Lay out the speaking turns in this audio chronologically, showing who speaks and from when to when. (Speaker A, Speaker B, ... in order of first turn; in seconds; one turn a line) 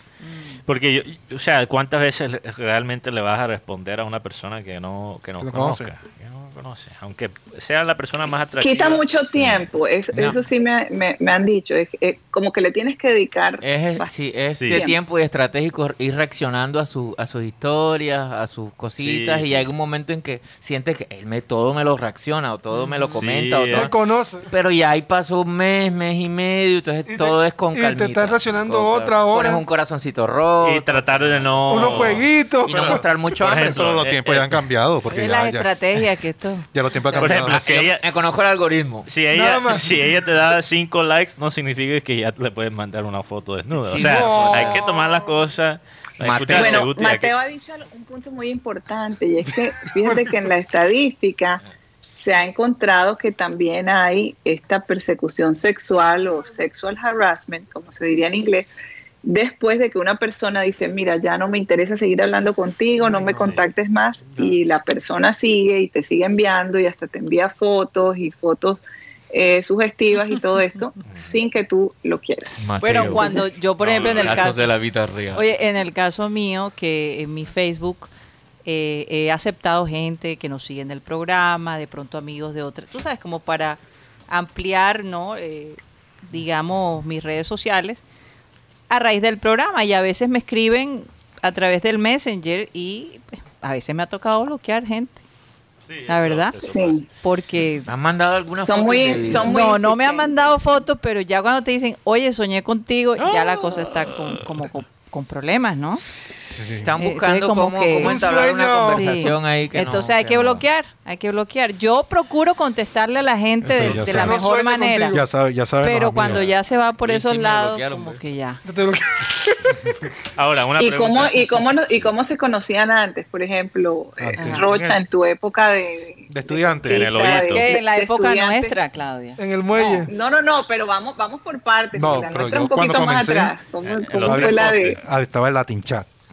Speaker A: 0.2-0.6
Speaker B: 0.7-9.6
Speaker C: 5.4-5.9
Speaker D: 8.6-14.1
Speaker E: 10.1-10.4
Speaker E: 13.6-23.9
Speaker B: 14.5-14.8
Speaker D: 14.7-15.0
Speaker B: 19.0-19.7
Speaker A: 22.7-23.2
Speaker B: 23.1-23.9
Speaker F: 23.7-24.5
Speaker E: 24.5-34.2
Speaker F: 27.1-29.6
Speaker B: 30.6-32.3
Speaker F: 31.7-33.0
Speaker C: 32.8-35.7
Speaker B: 33.4-34.5
Speaker A: 35.1-37.3
Speaker C: 36.7-37.8
Speaker B: 37.2-38.0
Speaker E: 37.2-39.1
Speaker B: 39.1-47.3
Speaker F: 39.3-40.0
Speaker E: 43.9-44.9
Speaker F: 43.9-45.1
Speaker E: 46.2-46.9
Speaker D: 46.5-58.7
Speaker D: 59.2-73.4
Speaker C: 63.0-63.6
Speaker B: 63.3-63.6
Speaker C: 64.3-64.6
Speaker E: 72.6-73.4
Speaker A: 72.8-74.7
Speaker B: 73.8-74.5
Speaker E: 74.0-75.5
Speaker A: 75.3-78.1
Speaker A: 78.7-88.0
Speaker A: 88.9-95.2
Speaker B: 95.8-97.0
Speaker A: 96.1-96.6
Speaker D: 96.6-97.0
Speaker A: 97.2-97.9
Speaker E: 97.9-99.6
Speaker D: 98.6-100.5
Speaker A: 99.4-106.0
Speaker B: 103.2-104.4
Speaker E: 106.2-110.6
Speaker C: 106.5-106.9
Speaker A: 107.0-108.3
Speaker F: 108.0-109.3
Speaker A: 108.8-115.2
Speaker C: 113.6-114.5
Speaker F: 114.0-115.2
Speaker C: 115.1-116.5
Speaker A: 115.8-118.6
Speaker E: 117.0-118.2
Speaker F: 118.7-119.9
Speaker B: 120.4-122.1
Speaker D: 120.8-128.8
Speaker C: 124.2-125.0
Speaker A: 124.4-124.7
Speaker C: 126.3-127.3
Speaker B: 126.9-127.7
Speaker A: 127.4-129.4
Speaker F: 129.4-130.1
Speaker D: 129.8-135.0
Speaker C: 131.9-133.5
Speaker B: 133.8-134.9
Speaker C: 134.2-136.1